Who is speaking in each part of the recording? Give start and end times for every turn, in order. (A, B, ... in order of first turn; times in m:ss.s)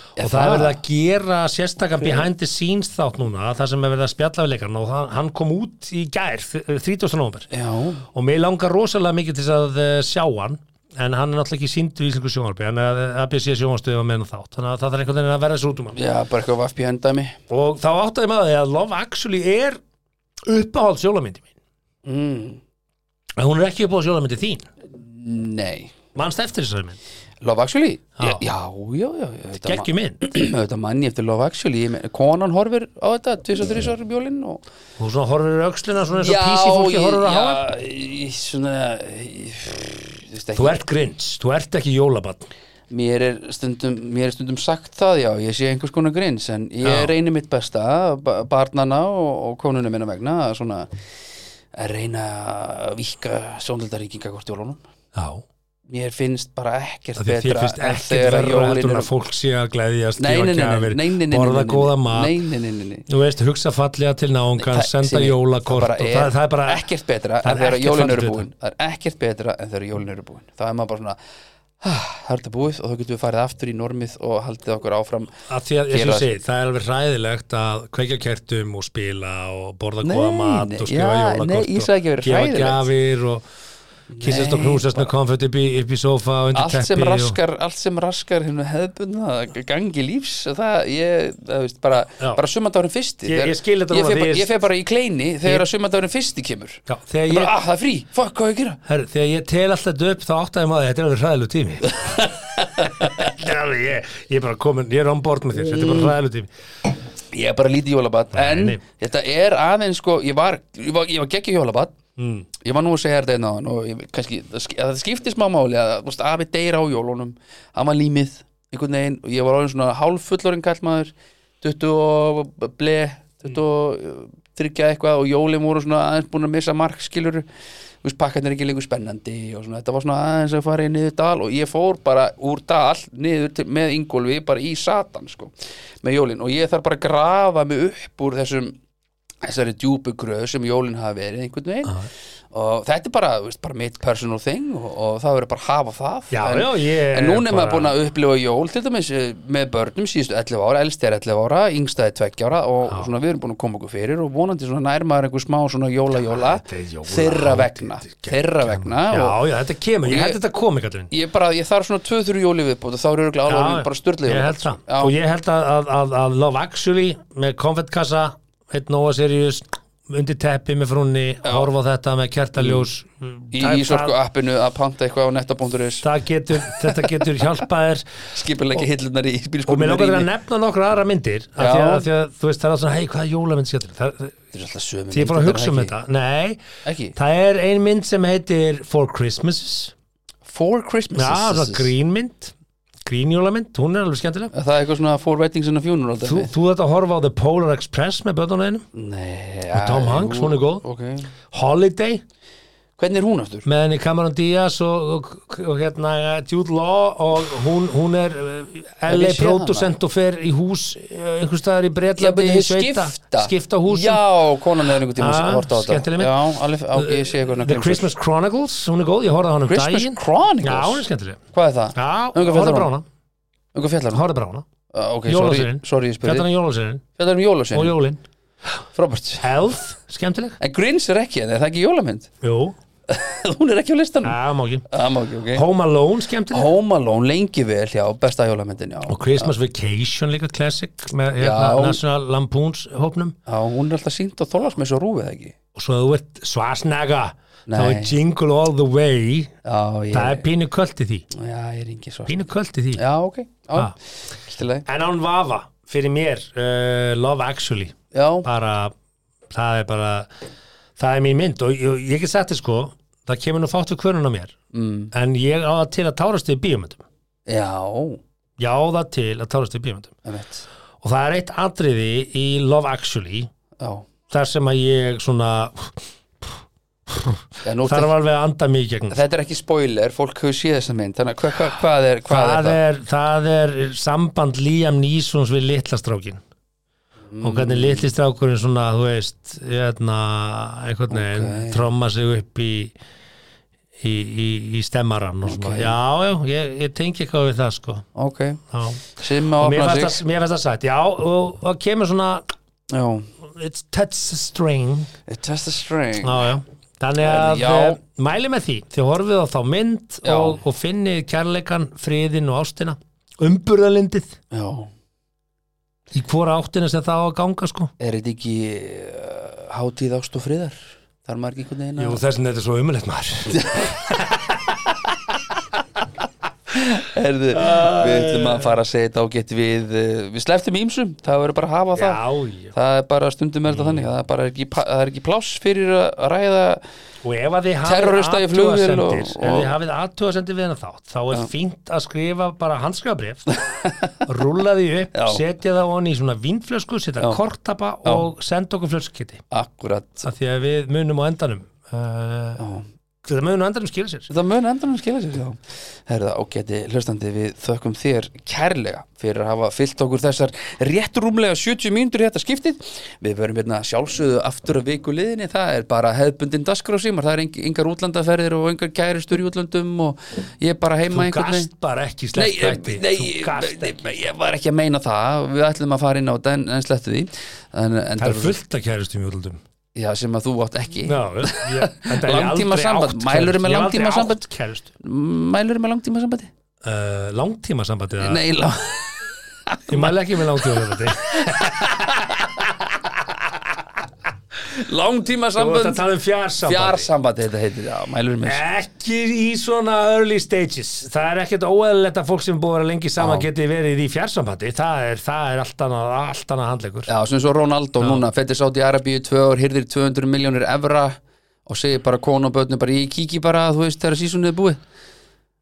0:00.2-0:00.8 A
0:00.2-0:07.5 B
0:07.5-0:08.0 A
0:08.1-0:16.0 B
0:16.0-0:17.4 A
0:17.5-0:19.8 B
0:20.5-0:21.5 B
0:22.0-0:22.6 A
0:23.4-0:24.6 B
0:25.0-0:25.9 A
0:26.2-0:27.0 B
0:27.4-0:34.6 A
0:28.2-0:28.4 B
0:29.6-0:30.2 B
0:35.0-0:37.6 B
0:36.2-0:40.8 A
0:40.6-0:42.5 B
0:42.9-0:50.9 A
0:46.8-0:47.1 B
0:51.8-0:54.8 A
0:55.2-0:55.4 B
0:55.9-0:59.1 A
0:57.2-1:02.3 B
1:00.2-1:03.1 A
1:03.1-1:06.9 B
1:04.6-1:11.2 A
1:07.4-1:08.4 B
1:11.8-1:15.3 A
1:15.5-1:23.4 B
1:15.9-1:16.3 A
1:20.0-1:22.9 A
1:24.1-1:25.1 A
1:24.2-1:27.4 B
1:26.6-1:38.8 A
1:33.2-1:34.5 B
1:36.9-1:37.6 B
1:38.8-1:42.3 B
1:41.9-1:43.3 A
1:42.8-1:46.5 B
1:45.7-1:46.1 A
1:47.3-1:52.0 A
1:48.3-1:48.8 B
1:52.2-1:52.5 B
1:52.6-2:07.4 A
2:08.0-2:15.5 A
2:16.0-2:18.8 A
2:19.4-2:39.4 A
2:26.3-2:27.9 B
2:36.3-2:41.1 B
2:40.0-2:40.4 A
2:41.1-2:45.1 A
2:43.5-2:54.1 B
2:52.6-2:52.9 A
2:53.5-2:56.1 A
2:56.0-2:58.2 B
2:56.7-2:57.6 A
2:58.3-3:00.3 A
2:59.7-3:04.4 B
3:01.6-3:02.1 A
3:04.5-3:05.9 A
3:05.1-3:06.6 B
3:06.8-3:07.2 A
3:07.2-3:09.9 B
3:10.5-3:11.9 A
3:11.2-3:12.5 B
3:13.0-3:14.5 B
3:14.5-3:16.5 A
3:16.2-3:18.8 B
3:18.9-3:21.3 A
3:19.7-3:20.8 B
3:21.5-3:22.2 B
3:23.0-3:23.7 A
3:23.7-3:34.2 B
3:29.1-3:30.0 A
3:32.2-3:38.1 A
3:35.1-3:36.4 B
3:37.0-3:41.4 B
3:39.7-3:42.9 A
3:42.0-3:43.0 B
3:43.7-3:44.2 A
3:44.1-3:44.6 B
3:44.9-3:46.5 A
3:45.3-3:47.0 B
3:47.2-3:48.0 A
3:47.7-3:48.2 B
3:49.0-3:49.5 A
3:49.4-3:50.6 B
3:50.6-3:52.3 A
3:52.4-3:52.8 B
3:53.1-3:54.4 A
3:54.2-3:54.9 B
3:54.9-3:55.7 A
3:55.5-3:56.7 B
3:56.5-3:59.5 A
3:59.1-4:03.4 B
4:01.4-4:02.0 A
4:03.5-4:05.5 A
4:05.8-4:09.5 B
4:07.7-4:08.2 A
4:09.6-4:10.5 A
4:10.1-4:11.3 B
4:11.3-4:12.4 A
4:12.3-4:13.0 B
4:13.0-4:14.0 A
4:14.5-4:14.9 A
4:14.9-4:18.9 B
4:18.1-4:18.5 A
4:19.5-4:20.3 B
4:21.0-4:24.6 B
4:24.7-4:25.1 A
4:25.1-4:27.0 B
4:27.5-4:28.2 A
4:28.6-4:30.1 B
4:30.2-4:30.6 A
4:31.0-4:33.5 B
4:33.8-4:34.1 A
4:34.3-4:36.5 B
4:37.1-4:39.2 B
4:37.6-4:38.1 A
4:39.1-4:42.8 A
4:42.3-4:46.4 B
4:47.3-4:48.1 A
4:47.4-4:52.9 B
4:51.1-4:51.8 A
4:54.0-4:58.0 B
4:55.4-4:55.9 A
4:58.2-4:58.6 A
4:58.7-5:02.4 B
4:59.2-5:00.2 A
5:02.9-5:03.3 A
5:03.4-5:05.1 B
5:05.3-5:06.5 A
5:06.2-5:14.4 B
5:07.2-5:08.0 A
5:10.2-5:10.6 A
5:14.5-5:14.9 A
5:16.1-5:17.9 B
5:18.0-5:22.2 A
5:22.0-5:24.4 B
5:23.5-5:24.0 A
5:26.7-5:32.2 A
5:27.5-5:28.7 B
5:32.0-5:32.7 B
5:32.7-5:36.8 A
5:33.7-5:34.1 B
5:37.2-5:43.6 B
5:37.8-5:39.7 A
5:43.7-5:44.1 A
5:44.3-5:49.4 B
5:45.1-5:45.4 A
5:49.5-5:50.2 A
5:50.2-5:52.6 B
5:52.6-5:52.8 A
5:53.2-5:54.3 B
5:54.3-6:11.7 A
6:11.1-6:14.2 B
6:12.4-6:18.6 A
6:18.2-6:19.6 B
6:20.0-6:24.4 A
6:21.1-6:24.9 B
6:25.0-6:26.5 A
6:26.8-6:28.4 B
6:28.2-6:33.6 A
6:29.9-6:32.5 B
6:34.6-6:36.0 A
6:35.6-6:37.1 B
6:36.6-6:38.6 A
6:38.4-6:47.1 B
6:43.2-6:43.5 A
6:47.1-6:54.8 A